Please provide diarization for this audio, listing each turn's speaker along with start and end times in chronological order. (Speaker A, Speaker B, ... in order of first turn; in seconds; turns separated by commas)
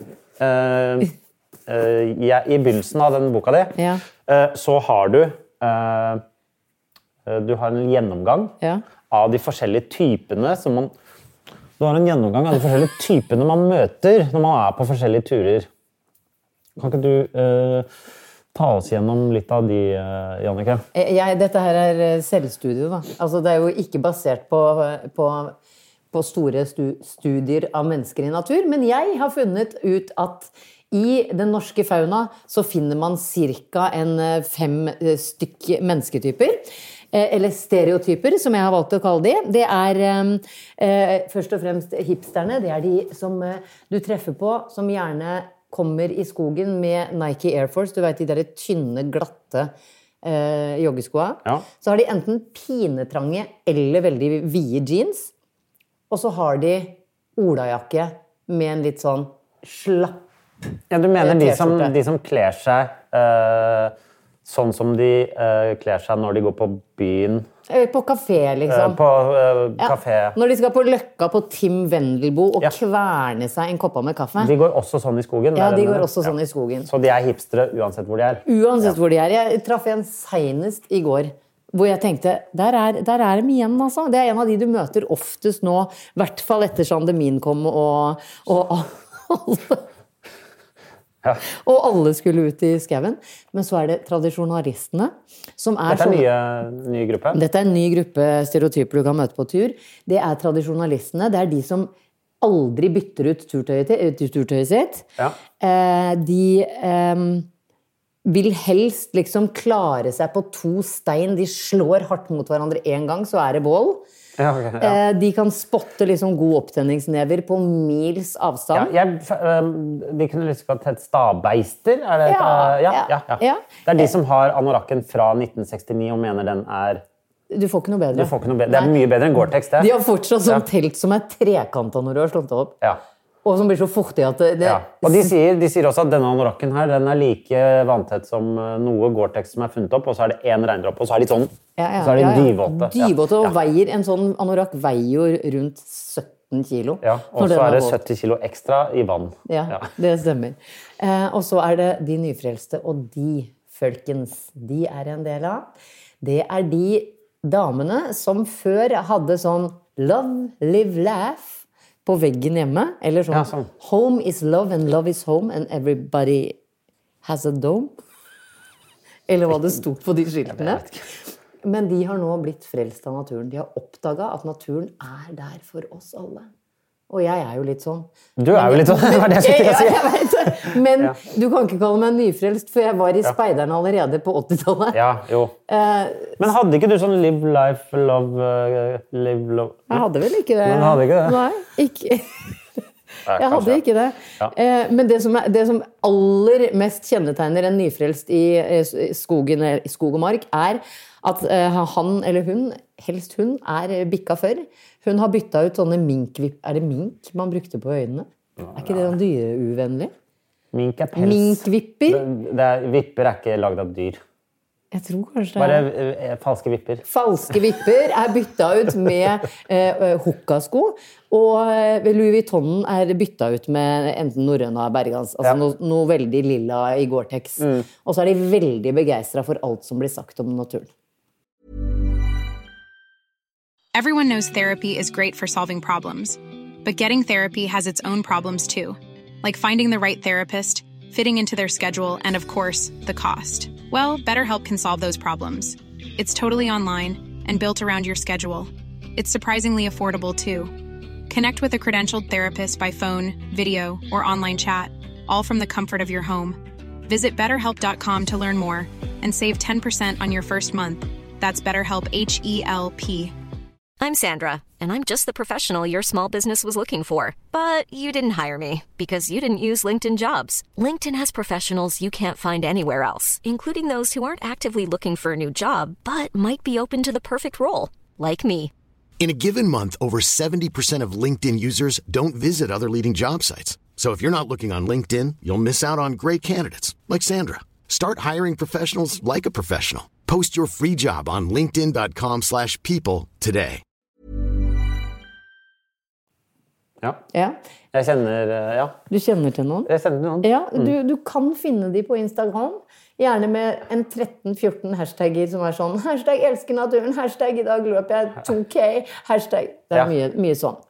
Speaker A: 0.4-1.1, Speaker A: 1.7-6.2, Speaker B: 3.8-4.0, Speaker A: 7.2-8.6, Speaker A: 9.1-10.9, Speaker A: 11.8-15.7, Speaker A: 16.8-17.9, Speaker A: 18.5-20.9, Speaker B: 20.9-25.6, Speaker B: 26.1-55.3, Speaker B: 56.1-60.2, Speaker A: 60.9-67.5, Speaker B: 61.2-61.9, Speaker B: 67.7-69.0, Speaker A: 68.7-70.4, Speaker B: 69.8-74.5, Speaker A: 74.4-78.9, Speaker B: 75.5-76.9, Speaker B: 78.5-89.9, Speaker B: 91.5-96.2, Speaker A: 95.9-97.4, Speaker B: 97.3-105.1, Speaker B: 105.6-107.5, Speaker B: 108.2-114.0, Speaker A: 114.4-115.0, Speaker B: 114.8-118.9, Speaker A: 118.7-127.0, Speaker B: 122.3-124.1, Speaker B: 127.5-129.0, Speaker A: 128.1-129.9, Speaker B: 129.7-132.8, Speaker B: 133.4-135.3, Speaker A: 134.6-143.5, Speaker B: 141.8-148.0, Speaker A: 147.0-149.9, Speaker B: 149.5-166.6, Speaker A: 163.3-163.7, Speaker B: 167.2-167.9, Speaker B: 169.3-170.9, Speaker A: 170.5-171.0, Speaker B: 171.6-176.5, Speaker B: 177.1-185.0, Speaker A: 178.4-181.2, Speaker A: 184.9-185.6, Speaker B: 185.7-186.4, Speaker A: 186.4-190.1, Speaker B: 189.9-192.4, Speaker A: 190.6-191.4, Speaker A: 193.3-193.8, Speaker B: 193.3-210.1, Speaker A: 210.7-214.2, Speaker B: 211.2-212.3, Speaker B: 214.9-215.9, Speaker A: 215.6-217.0, Speaker B: 217.1-230.9, Speaker C: 233.9-250.8, Speaker C: 251.3-263.3, Speaker D: 264.0-278.7, Speaker E: 279.2-293.8, Speaker B: 297.3-297.6, Speaker A: 297.9-299.0, Speaker B: 299.1-299.9, Speaker A: 299.9-300.9, Speaker B: 300.4-310.8